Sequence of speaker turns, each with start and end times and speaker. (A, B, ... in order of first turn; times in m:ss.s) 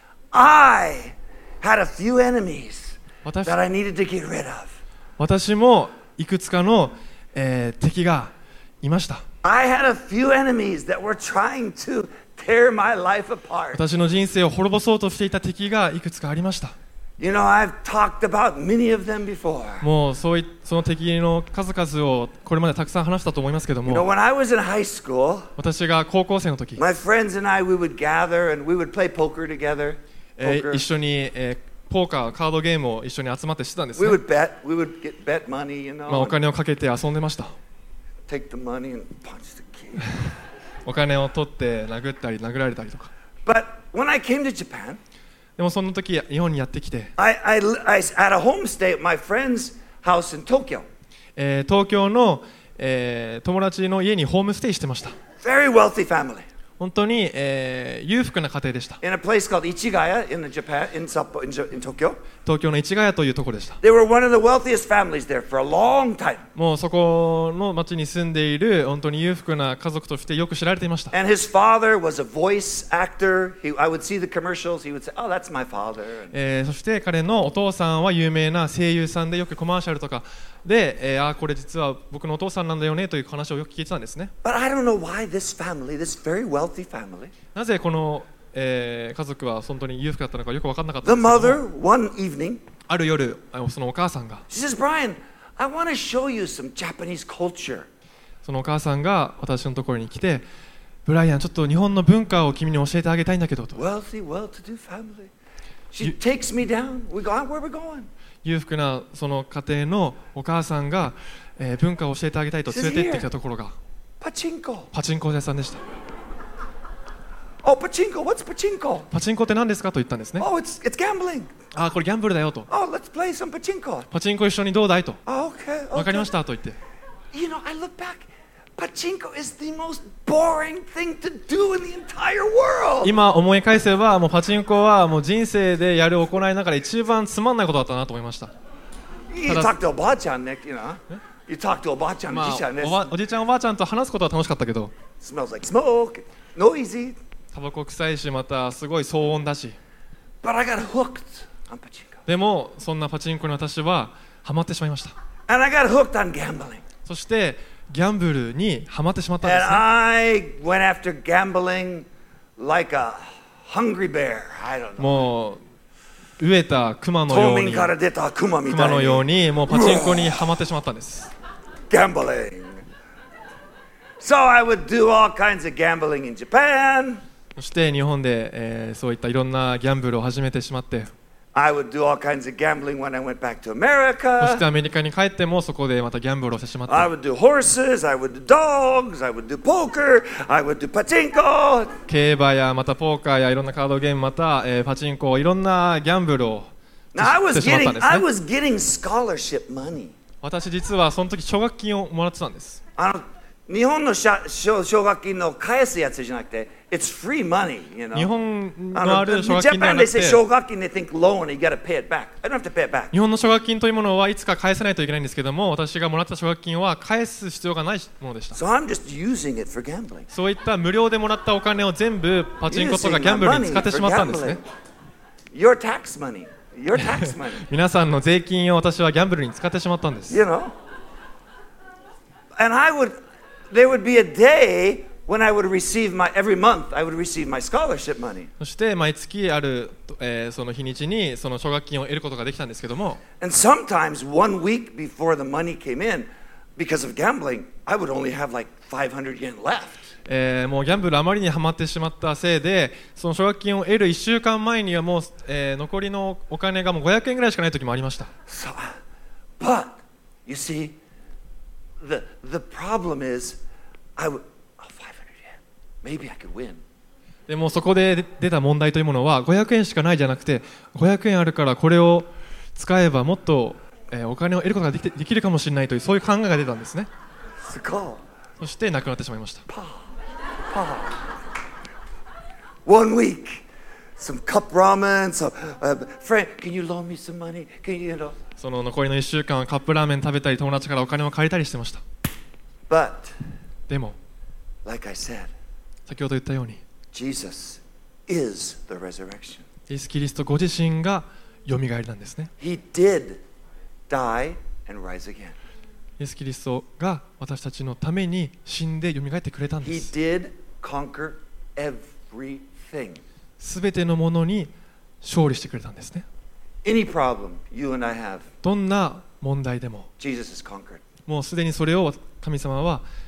0:00.3-0:04.7 A
0:03.2-0:03.6 B
0:05.2-0:09.2 B
0:09.4-0:13.8 A
0:13.7-0:16.8 B
0:17.2-0:19.9 A
0:19.8-0:24.1 B
0:23.9-0:25.5 A
0:25.6-0:26.8 B
0:26.8-0:30.8 A
0:30.4-0:34.2 B
0:34.0-0:36.4 A
0:36.1-0:37.6 B
0:38.3-0:40.2 A
0:40.9-0:43.1 B
0:43.5-0:45.0 A
0:45.6-0:47.1 B
0:47.2-0:50.8 A
0:51.4-0:55.2 B
0:55.4-0:56.4 A
0:56.8-0:59.0 B
0:59.0-1:02.2 A
1:02.4-1:03.8 B
1:03.8-1:06.4 A
1:06.6-1:11.1 B
1:11.1-1:16.3 A
1:16.3-1:24.3 B
1:24.4-1:27.3 A
1:27.6-1:31.6 B
1:31.0-1:32.6 A
1:32.9-1:34.4 B
1:34.5-1:37.9 A
1:38.4-1:40.4 B
1:41.1-1:43.8 B
1:43.8-1:45.3 A
1:45.9-1:48.1 A
1:48.4-1:53.8 B
1:52.7-1:53.3 A
1:54.2-1:54.9 A
1:54.9-1:55.8 B
1:57.6-1:59.1 A
1:59.1-2:00.5 B
2:00.4-2:01.5 A
2:01.7-2:02.7 B
2:02.7-2:04.1 A
2:04.1-2:05.2 B
2:05.3-2:06.3 A
2:06.0-2:06.8 B
2:07.3-2:08.3 A
2:08.8-2:13.1 A
2:13.0-2:18.5 B
2:19.3-2:23.1 A
2:19.5-2:19.7 B
2:22.3-2:24.9 B
2:25.2-2:27.2 A
2:27.5-2:29.8 B
2:30.4-2:32.2 A
2:32.3-2:35.1 B
2:35.5-2:36.8 A
2:37.1-2:39.8 B
2:39.4-2:42.1 A
2:42.6-2:45.3 A
2:45.0-2:45.6 B
2:46.4-2:47.9 B
2:47.3-2:50.4 A
2:48.7-2:51.3 B
2:51.9-2:52.8 A
2:54.2-2:57.2 A
2:57.6-3:01.1 B
3:01.6-3:04.6 A
3:04.4-3:07.1 B
3:06.9-3:11.9 A
3:12.1-3:18.2 B
3:17.2-3:20.1 A
3:20.4-3:22.8 B
3:23.0-3:28.3 A
3:28.1-3:30.4 B
3:28.9-3:33.1 A
3:33.1-3:38.6 B
3:38.5-3:40.3 A
3:40.3-3:44.6 B
3:42.7-3:44.6 A
3:45.5-3:47.6 A
3:46.9-3:50.4 B
3:50.3-3:50.7 A
3:52.6-3:53.2 A
3:53.7-3:58.5 A
3:58.6-4:03.2 B
4:03.4-4:10.1 A
4:10.3-4:18.3 B
4:18.5-4:19.0 A
4:19.6-4:21.0 A
4:22.0-4:23.6 A
4:24.2-4:26.8 A
4:27.5-4:37.1 B
4:37.6-4:38.2 A
4:38.6-4:39.6 B
4:39.7-4:40.0 A
4:40.7-4:41.2 A
4:42.9-4:43.7 A
4:44.2-4:48.4 A
4:48.6-4:52.0 B
4:52.9-4:53.3 A
4:53.9-4:54.2 B
4:54.8-4:55.5 A
4:56.1-4:56.8 B
4:57.1-4:59.7 A
4:59.9-5:02.5 B
5:02.6-5:03.4 A
5:04.1-5:05.6 A
5:06.2-5:10.1 B
5:09.8-5:13.2 A
5:13.6-5:16.3 B
5:16.8-5:18.5 A
5:18.6-5:20.1 B
5:20.2-5:21.0 A
5:21.3-5:23.0 B